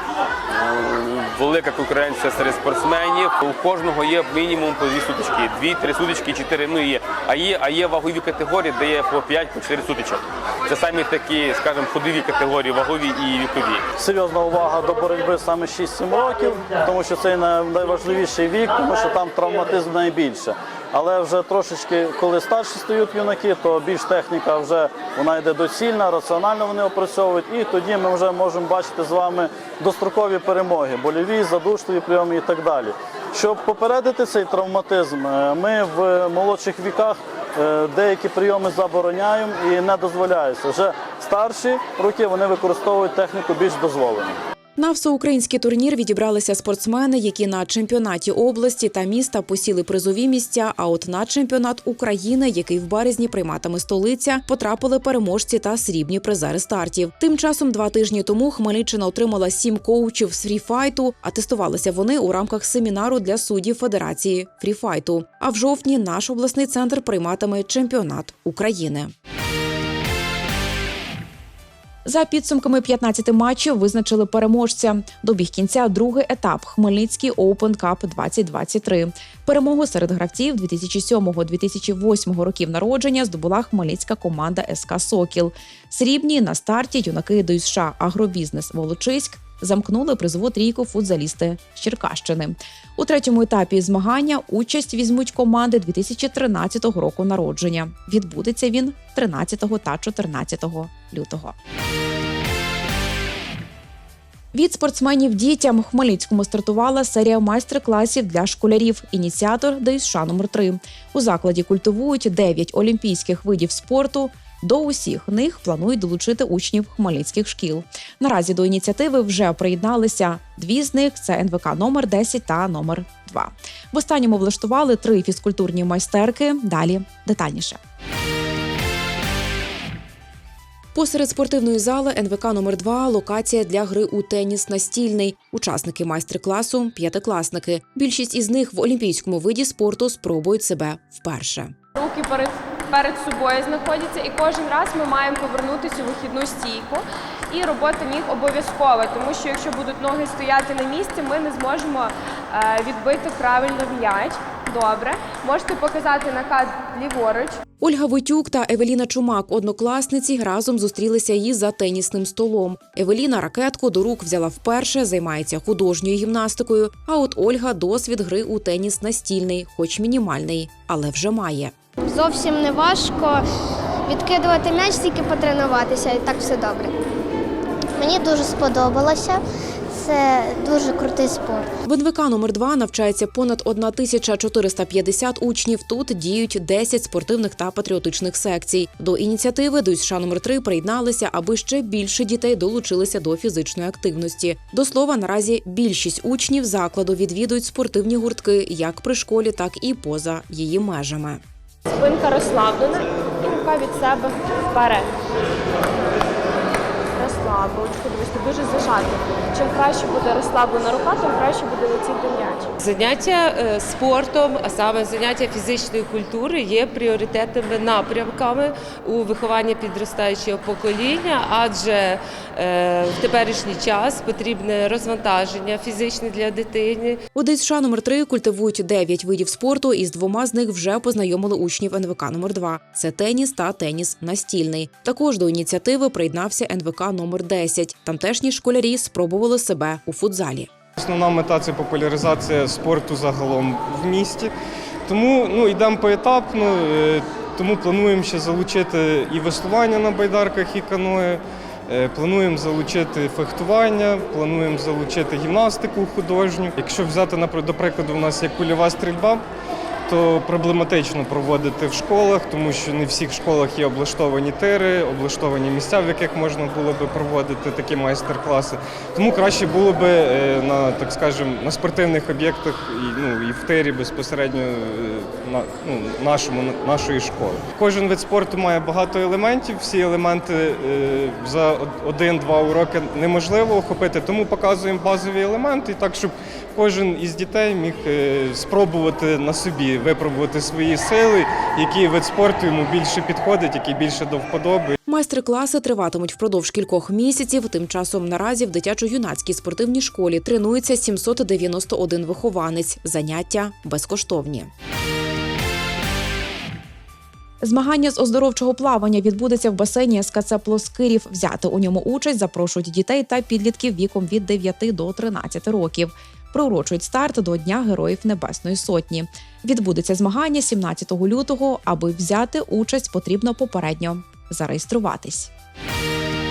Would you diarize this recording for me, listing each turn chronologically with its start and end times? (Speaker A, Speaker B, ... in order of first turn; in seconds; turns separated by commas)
Speaker A: 0.5-13.9, Speaker B: 14.0-44.4, Speaker C: 44.8-69.1, Speaker C: 72.1-101.5, Speaker C: 104.5-127.8, Speaker C: 130.9-141.7, Speaker D: 141.9-157.6, Speaker C: 157.8-171.7, Speaker E: 172.1-173.4, Speaker A: 174.1-174.4, Speaker E: 174.1-176.9, Speaker A: 178.0-179.4, Speaker A: 179.9-181.7, Speaker C: 181.8-201.4, Speaker D: 201.9-205.1, Speaker D: 207.2-212.7, Speaker F: 212.8-227.2, Speaker C: 227.3-240.7, Speaker G: 241.0-244.5, Speaker G: 245.1-259.4, Speaker G: 260.1-295.0, Speaker C: 295.1-304.7, Speaker C: 307.6-325.5